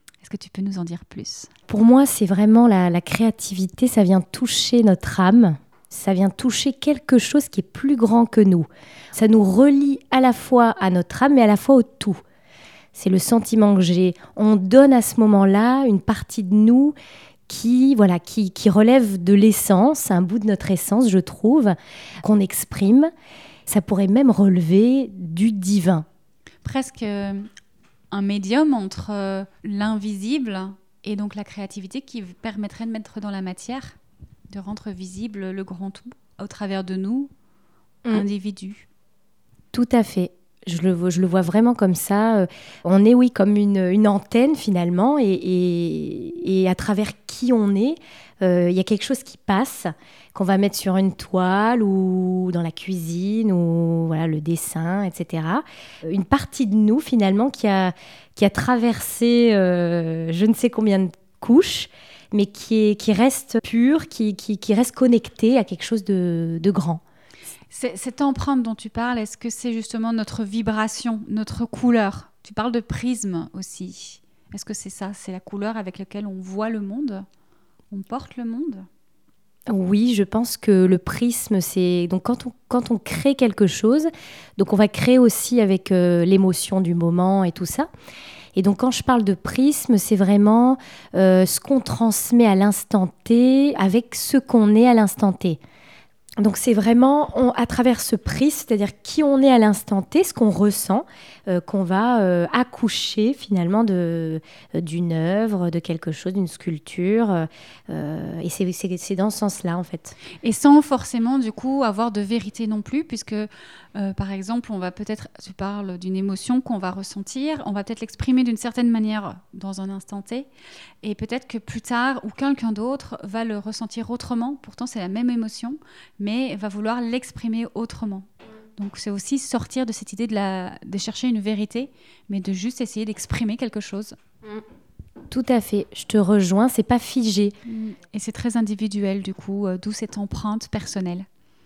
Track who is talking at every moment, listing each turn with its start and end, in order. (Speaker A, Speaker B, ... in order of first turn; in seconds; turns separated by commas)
Speaker A: 0.2-1.5, Speaker B: 1.7-12.2, Speaker B: 12.9-16.9, Speaker B: 17.5-23.1, Speaker B: 23.7-26.1, Speaker A: 26.6-27.5, Speaker A: 28.1-34.0, Speaker A: 34.5-37.3, Speaker A: 38.1-38.9, Speaker B: 39.7-67.0, Speaker A: 67.7-77.2, Speaker A: 77.9-78.9, Speaker B: 79.7-87.9, Speaker B: 88.5-95.6, Speaker B: 96.4-110.2, Speaker A: 110.4-120.5, Speaker A: 121.0-134.2, Speaker B: 135.3-137.5, Speaker A: 137.7-141.3